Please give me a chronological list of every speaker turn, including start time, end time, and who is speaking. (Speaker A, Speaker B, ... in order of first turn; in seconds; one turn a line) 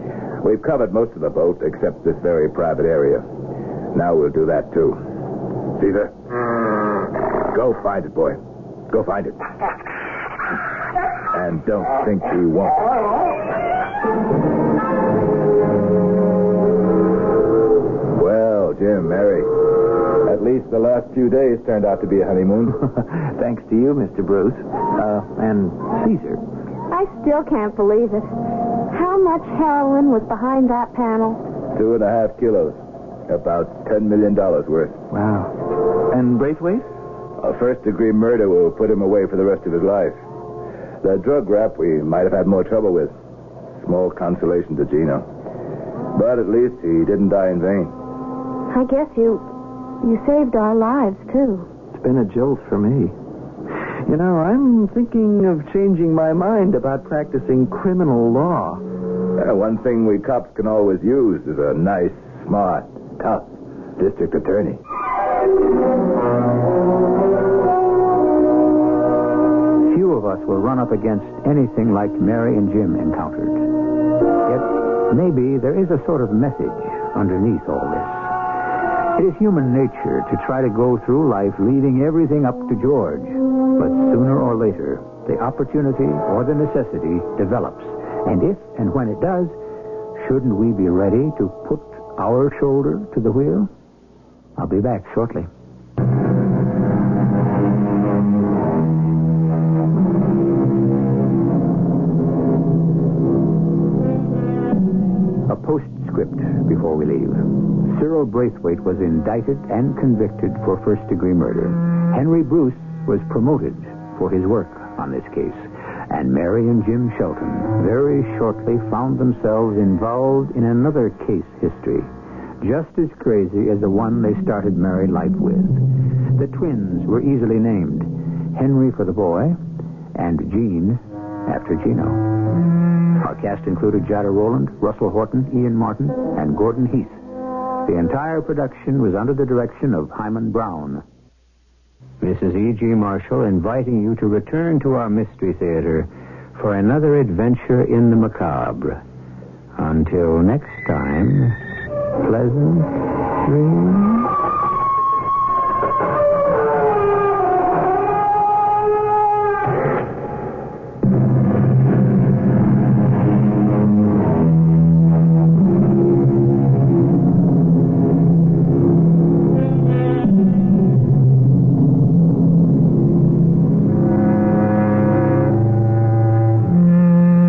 Speaker A: 0.4-3.2
Speaker A: 3.9-5.0
Speaker A: 5.7-6.1
Speaker A: 7.5-9.4
Speaker A: 11.3-12.9
Speaker A: 18.1-19.7
Speaker A: 20.2-22.8
Speaker B: 23.1-26.4
Speaker C: 26.9-28.3
Speaker C: 28.9-31.4
Speaker A: 31.7-32.8
Speaker A: 33.3-35.0
Speaker B: 35.1-36.9
Speaker A: 37.4-40.1
Speaker A: 41.0-43.1
Speaker A: 43.8-45.2
Speaker A: 46.1-47.9
Speaker C: 48.7-49.4
Speaker C: 50.0-51.7
Speaker B: 51.9-53.1
Speaker B: 54.1-58.8
Speaker A: 59.4-64.8
Speaker D: 69.8-89.5
Speaker D: 90.2-93.7
Speaker D: 94.5-95.5
Speaker D: 105.5-129.6
Speaker D: 130.1-132.5
Speaker D: 133.2-137.2
Speaker D: 137.8-141.0
Speaker D: 142.2-149.0
Speaker D: 149.8-151.6
Speaker D: 152.2-154.3